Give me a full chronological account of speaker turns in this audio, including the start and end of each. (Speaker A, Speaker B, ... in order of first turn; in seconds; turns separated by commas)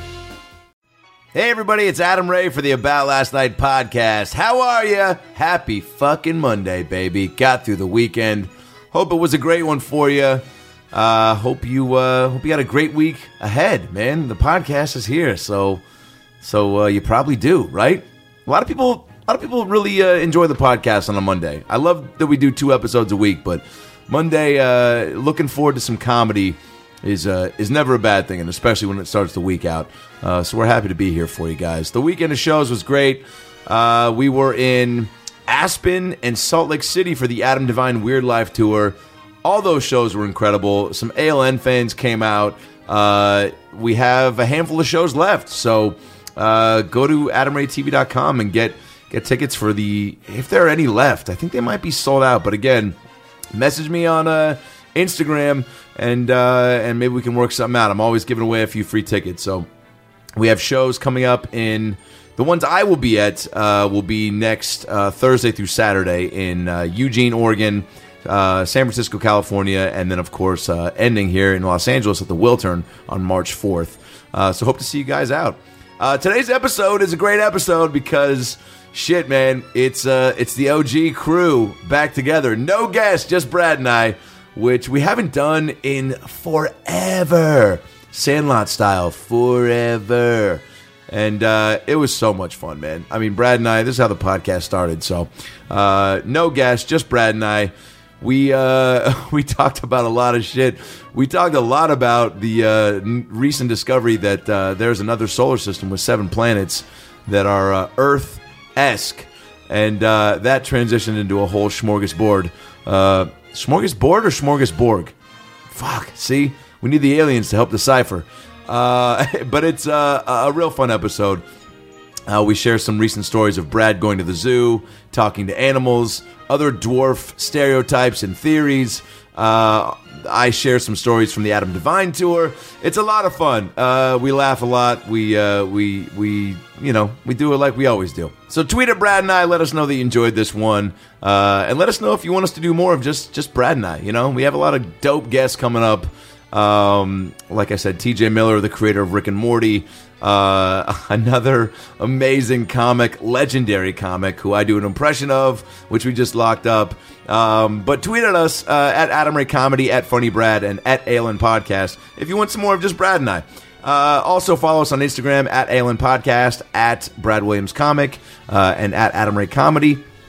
Speaker A: 1.3-15.8, Speaker A: 16.4-53.0, Speaker A: 53.5-59.7, Speaker A: 60.4-115.1, Speaker A: 115.7-121.4, Speaker A: 122.3-170.0